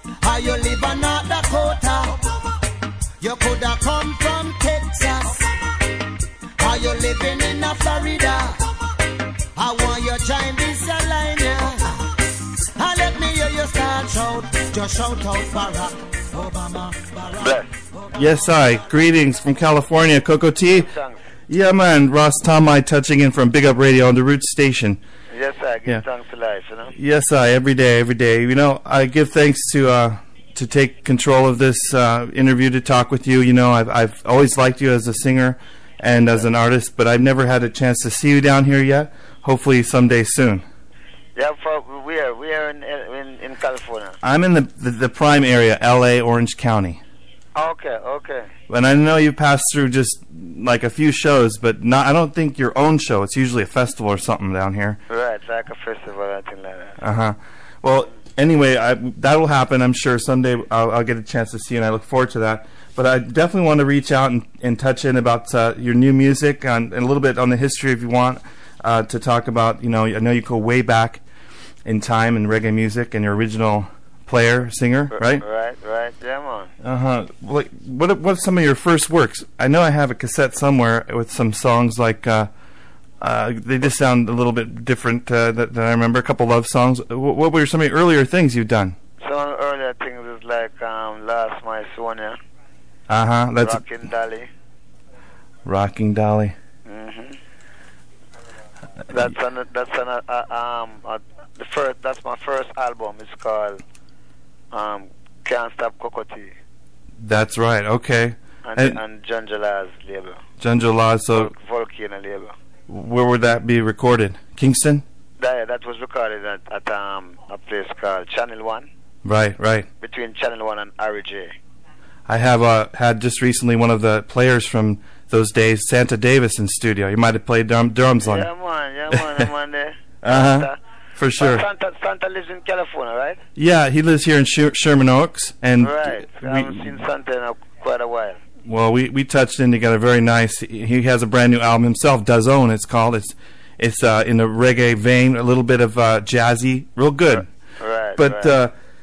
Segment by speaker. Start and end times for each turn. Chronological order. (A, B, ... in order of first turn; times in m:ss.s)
0:00.2-0:02.2 A
0:03.2-0:05.5 A
0:06.6-0:08.6 A
0:09.6-0:12.0 A
0:12.8-0:18.2 A
0:17.4-0:17.7 B
0:18.1-0:20.9 C
0:20.8-0:21.2 B
0:21.5-0:25.0 C
0:25.3-0:26.9 B
0:26.9-0:40.6 C
0:41.4-0:44.2 B
0:44.2-0:47.0 C
0:47.5-0:48.5 B
0:48.7-0:55.0 C
0:55.1-0:57.0 B
0:57.0-1:11.2 C
1:11.8-1:15.4 C
1:15.1-1:16.7 B
1:16.8-1:22.5 C
1:23.2-1:29.0 C
1:29.2-1:32.4 B
1:33.1-1:33.8 C
1:33.6-1:34.5 B
1:35.6-1:36.5 C
1:36.8-1:37.4 B
1:39.1-1:43.8 B
1:44.7-1:46.5 B
1:47.2-1:49.0 C
1:48.6-1:50.4 B
1:50.6-1:51.5 C
1:51.3-1:52.6 B
1:52.9-1:55.0 C
1:55.4-1:58.9 B
1:59.2-1:59.9 C
2:00.0-2:01.5 B
2:02.3-2:08.5 C
2:08.2-2:10.8 B
2:09.1-2:09.4 C
2:10.2-2:11.6 C
2:11.3-2:13.4 B
2:13.6-2:17.0 C
2:15.8-2:18.4 B
2:18.6-2:27.4 C
2:27.3-2:28.6 B
2:28.2-2:28.7 C